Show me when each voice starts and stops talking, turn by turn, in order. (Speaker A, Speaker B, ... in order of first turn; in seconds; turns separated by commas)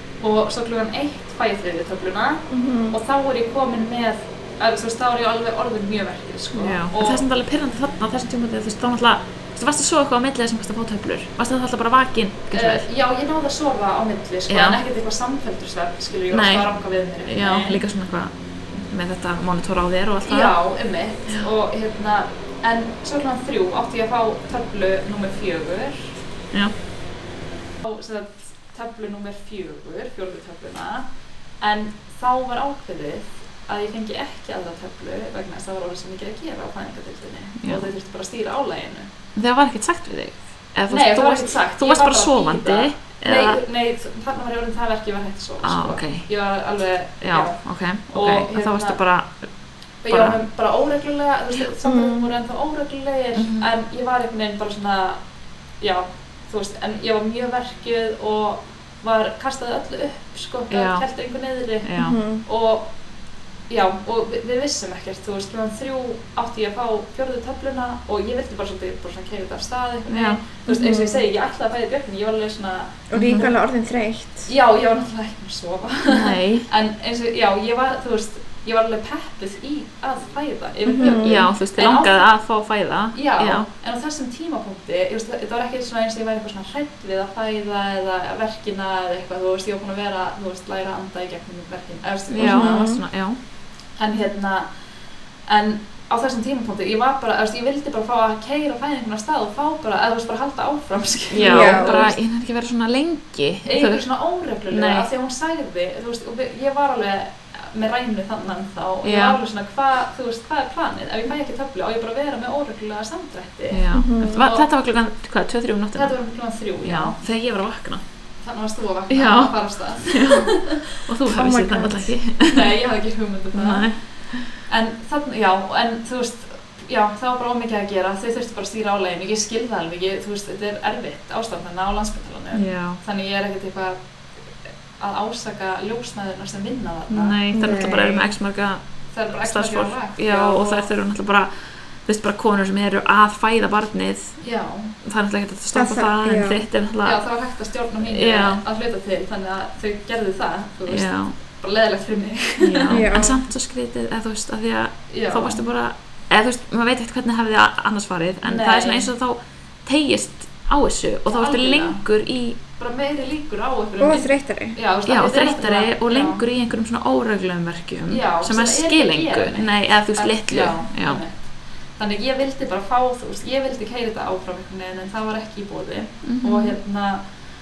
Speaker A: 0.2-7.2, Speaker B: 2.5-3.0, Speaker C: 6.5-12.8, Speaker A: 12.5-17.8, Speaker C: 14.5-14.8, Speaker C: 16.3-16.7, Speaker C: 17.2-20.5, Speaker A: 20.2-26.2, Speaker A: 27.8-31.1, Speaker A: 31.6-39.1, Speaker C: 37.6-37.9, Speaker C: 39.4-43.6, Speaker A: 40.9-49.0, Speaker C: 45.6-46.3, Speaker C: 47.2-49.4, Speaker A: 50.0-55.2, Speaker C: 50.1-50.4, Speaker B: 51.8-52.3, Speaker C: 53.4-53.7, Speaker A: 55.8-62.9, Speaker C: 60.7-61.0, Speaker C: 61.8-62.2, Speaker B: 62.0-62.4, Speaker A: 63.7-73.5, Speaker C: 70.1-70.4, Speaker B: 70.7-71.2, Speaker B: 73.1-74.5, Speaker C: 73.1-73.5, Speaker A: 74.5-82.3, Speaker C: 76.1-76.7, Speaker B: 80.9-81.5, Speaker C: 81.0-83.7, Speaker A: 83.1-92.9, Speaker C: 92.3-93.4, Speaker B: 92.4-93.0, Speaker A: 94.0-94.7, Speaker A: 95.5-102.1, Speaker C: 101.3-104.0, Speaker B: 101.4-102.1, Speaker A: 103.6-114.6, Speaker C: 104.7-105.1, Speaker C: 109.0-109.4, Speaker C: 113.7-116.2, Speaker B: 113.9-114.5, Speaker A: 116.0-117.2, Speaker C: 116.8-118.0, Speaker A: 118.4-121.0, Speaker C: 119.1-122.8, Speaker B: 121.3-122.1, Speaker A: 122.5-123.9, Speaker C: 123.5-124.5, Speaker A: 124.6-134.0, Speaker C: 132.5-133.0, Speaker A: 135.0-137.4, Speaker C: 137.1-138.8, Speaker B: 137.5-138.3, Speaker A: 139.1-140.9, Speaker C: 139.4-141.5, Speaker C: 142.1-144.4, Speaker A: 144.4-144.9, Speaker C: 145.0-147.2, Speaker B: 145.7-146.6, Speaker A: 147.0-153.0, Speaker C: 148.0-148.6, Speaker C: 150.9-151.3, Speaker C: 152.6-162.6, Speaker B: 152.9-153.4, Speaker A: 155.1-155.6, Speaker A: 158.4-159.1, Speaker A: 161.3-162.0, Speaker A: 162.8-166.4, Speaker B: 164.0-164.8, Speaker C: 165.1-171.2, Speaker A: 168.1-171.4, Speaker A: 172.0-177.2, Speaker C: 176.2-176.7